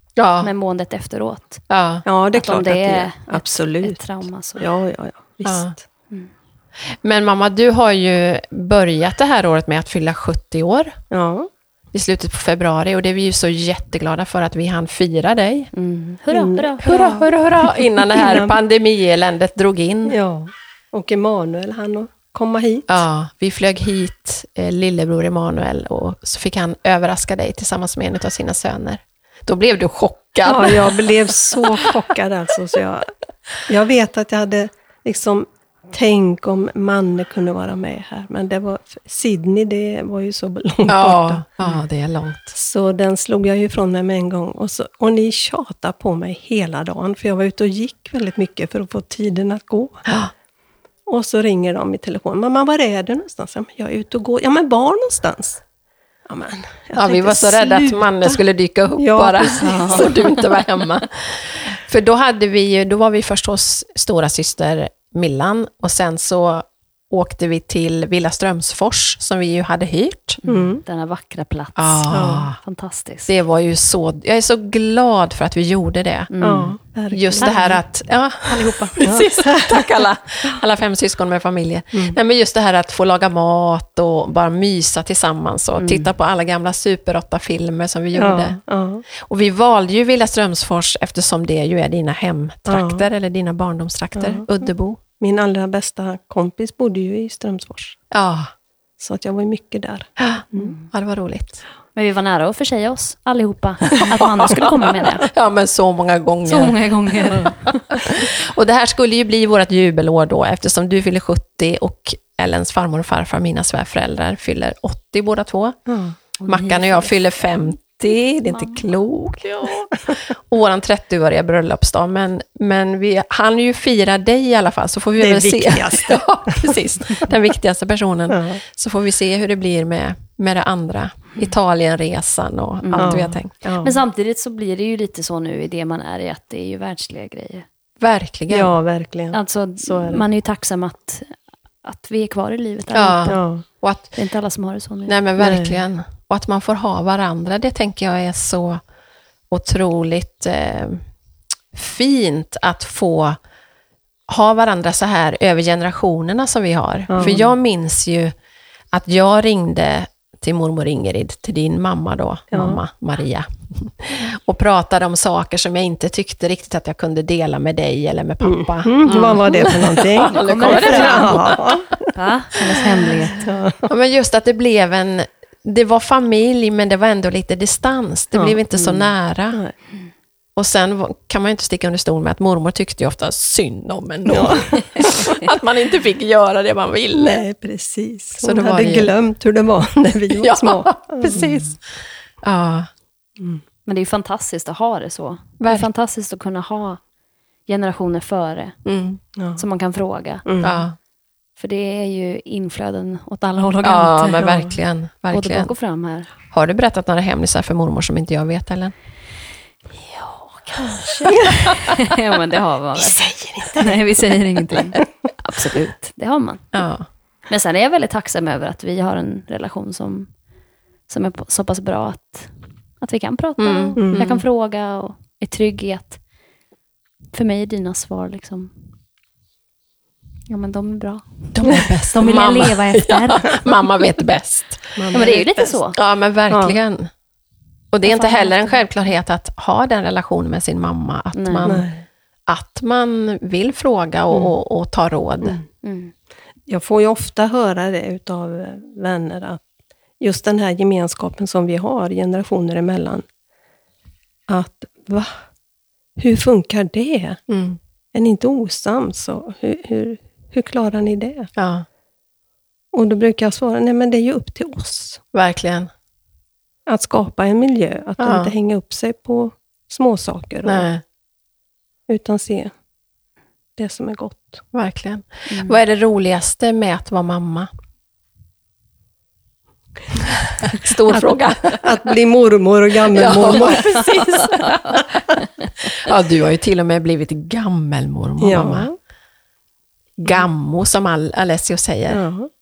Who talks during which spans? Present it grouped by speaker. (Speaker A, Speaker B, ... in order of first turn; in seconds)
Speaker A: 0.2-0.5, 1.7-2.1, 5.5-5.7, 7.0-11.0, 11.9-15.7, 16.8-20.2, 22.9-31.9, 40.9-42.5, 50.1-50.3, 57.0-70.4, 71.8-72.6, 73.3-76.3, 77.1-88.6, 89.1-95.0, 98.1-98.5, 100.2-101.6, 104.1-115.8, 116.5-133.5, 138.0-138.7, 142.9-144.1, 145.1-148.8, 149.5-151.0, 151.7-153.4, 154.3-158.3, 158.9-171.8, 173.9-179.6, 180.6-187.4, 188.4-189.1, 190.4-191.8, 192.4-192.9, 195.6-195.9, 198.8-199.2, 200.6-201.0, 203.8-205.7, 206.5-208.9, 216.7-217.1, 223.6-224.4, 231.6-235.2, 235.9-237.1, 237.9-241.9, 242.5-245.6, 257.5-257.8, 261.6-261.9, 265.3-265.9, 268.2-268.5, 270.6-271.0, 274.7-277.7, 280.6-281.8, 283.1-285.2, 285.8-288.9, 290.2-292.2
Speaker B: 0.4-1.6, 2.3-4.7, 15.7-17.2, 59.6-60.4, 70.4-73.3, 76.3-76.8, 77.4-77.8, 78.5-79.0, 85.8-86.1, 100.6-100.9, 102.0-105.3, 106.5-108.2, 116.4-117.1, 118.5-118.9, 132.8-137.7, 139.3-143.4, 144.1-145.2, 169.1-169.7, 170.3-171.4, 172.1-173.4, 178.8-179.0, 193.9-197.0, 197.7-198.8, 199.6-200.5, 201.6-204.6, 205.3-206.3, 210.0-216.7, 217.5-220.3, 221.1-226.2, 227.3-228.7, 230.5-233.7, 235.1-236.0, 238.1-238.8, 241.3-241.8, 245.8-246.1, 275.5-275.8, 283.9-285.7
Speaker C: 2.1-5.8, 11.1-11.5, 16.3-17.1, 18.1-18.6, 20.1-23.0, 30.4-33.1, 33.7-41.5, 42.5-50.0, 51.1-55.6, 56.3-58.4, 59.0-60.3, 70.5-70.8, 72.1-72.5, 76.4-77.7, 79.0-79.8, 88.2-89.0, 92.7-93.1, 94.2-94.5, 95.2-98.0, 99.0-100.7, 115.9-116.2, 125.2-126.8, 128.3-128.6, 133.0-134.0, 138.5-140.2, 143.3-143.7, 145.4-145.8, 157.1-157.4, 162.5-162.8, 168.4-172.1, 173.3-173.9, 178.3-178.6, 184.3-185.2, 187.1-191.7, 199.4-199.6, 200.4-200.8, 204.4-204.7, 211.3-211.6, 213.0-215.0, 224.0-224.3, 235.0-235.8, 236.5-236.8, 241.7-242.0, 246.7-249.6, 250.2-253.2, 254.5-255.3, 256.2-257.4, 258.1-261.5, 262.9-265.2, 266.9-270.9, 272.1-272.7, 273.8-274.6, 281.1-284.1, 288.4-289.0, 292.1-292.5